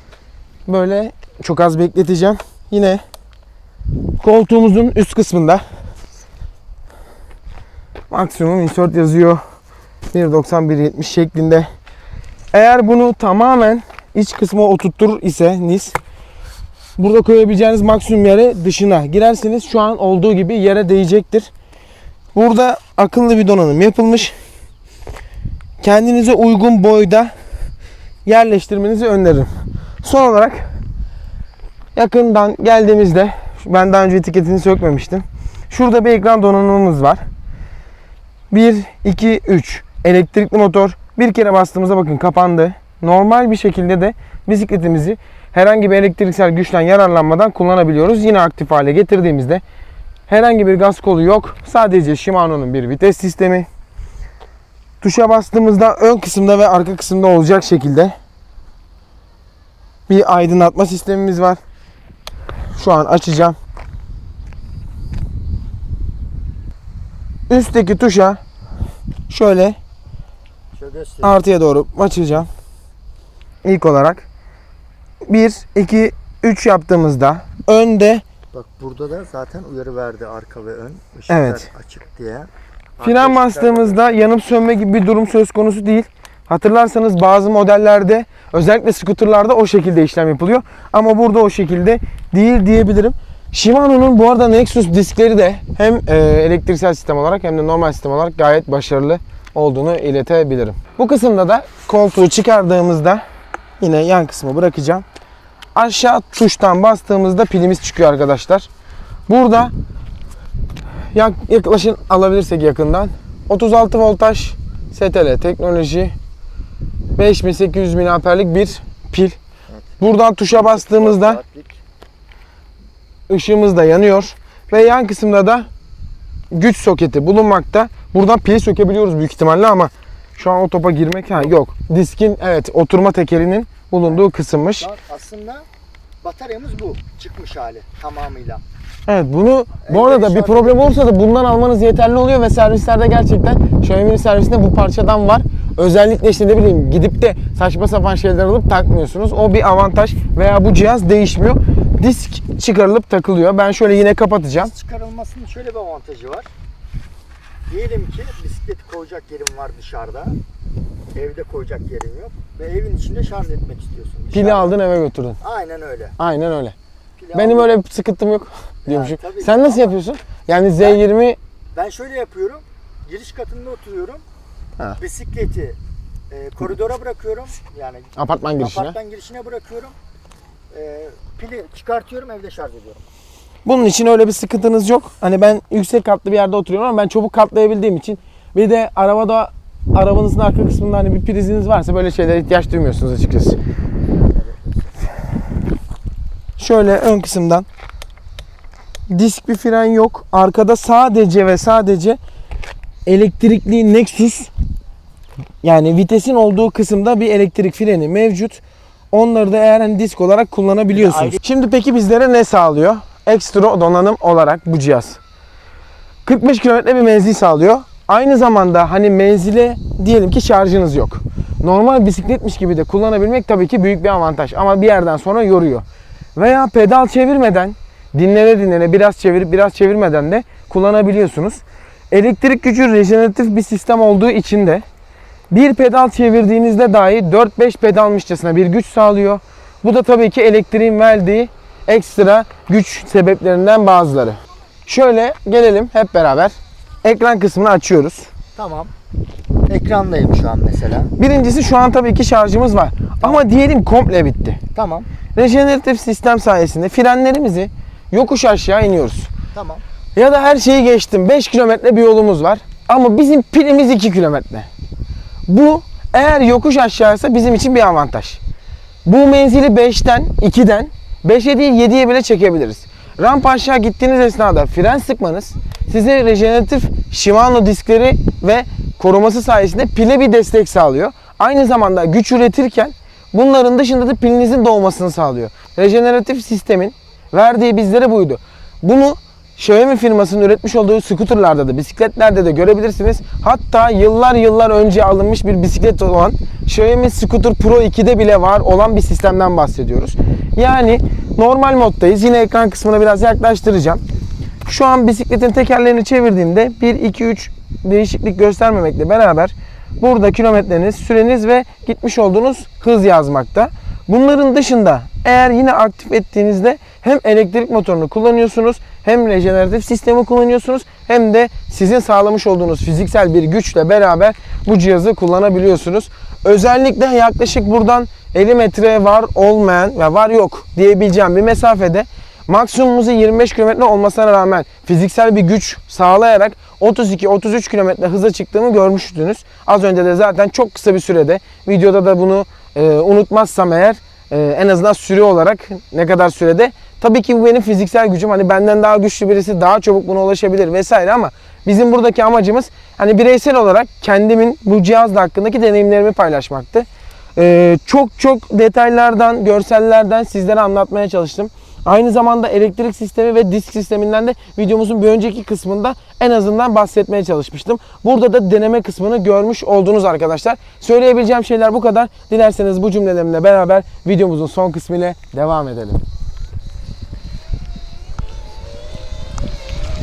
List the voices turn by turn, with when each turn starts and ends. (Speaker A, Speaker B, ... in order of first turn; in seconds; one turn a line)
Speaker A: 0.7-3.0
Speaker A: 4.2-5.6
Speaker A: 8.1-9.4
Speaker A: 10.1-11.7
Speaker A: 12.5-16.0
Speaker A: 17.0-21.5
Speaker A: 22.4-24.3
Speaker A: 25.8-27.3
Speaker A: 28.3-29.5
Speaker A: 30.0-30.7
Speaker A: 31.9-37.2
Speaker A: 38.5-49.6
Speaker A: 50.3-53.7
Speaker A: 55.0-58.1
Speaker A: 60.1-61.6
Speaker A: 62.8-63.6
Speaker A: 67.5-68.4
Speaker A: 69.3-69.8
Speaker B: 70.7-71.4
Speaker A: 71.2-72.5
Speaker A: 73.6-74.3
Speaker A: 75.3-78.2
Speaker B: 78.5-84.2
Speaker A: 81.3-81.7
Speaker A: 83.0-103.2
Speaker A: 103.8-105.0
Speaker A: 105.8-108.7
Speaker A: 109.3-109.7
Speaker A: 111.1-116.1
Speaker A: 117.2-119.4
Speaker A: 120.0-121.4
Speaker B: 120.5-121.8
Speaker A: 123.3-125.7
Speaker A: 126.5-134.9
Speaker B: 134.8-135.7
Speaker B: 136.2-138.6
Speaker A: 139.1-154.7
Speaker B: 139.8-141.0
Speaker B: 154.6-156.5
Speaker B: 157.7-160.4
Speaker B: 161.1-164.8
Speaker A: 164.3-165.4
Speaker B: 165.4-166.2
Speaker A: 166.2-166.8
Speaker B: 167.2-167.7
Speaker A: 167.3-171.4
Speaker B: 168.9-170.0
Speaker B: 171.7-174.2
Speaker B: 175.0-175.8
Speaker B: 176.3-180.0
Speaker A: 178.2-178.9
Speaker B: 180.7-183.0
Speaker A: 183.7-193.6
Speaker B: 194.3-194.9
Speaker A: 196.6-197.7
Speaker A: 199.1-202.2
Speaker A: 203.1-204.5
Speaker A: 205.6-215.2
Speaker B: 211.0-211.4
Speaker A: 216.2-225.8
Speaker A: 226.4-234.8
Speaker A: 235.5-248.3
Speaker B: 248.6-248.9
Speaker B: 249.7-251.1
Speaker A: 251.2-254.6
Speaker B: 254.7-255.1
Speaker A: 255.4-259.3
Speaker B: 259.5-259.8
Speaker A: 260.2-264.7
Speaker A: 265.5-268.4
Speaker A: 269.1-304.0
Speaker A: 304.7-376.0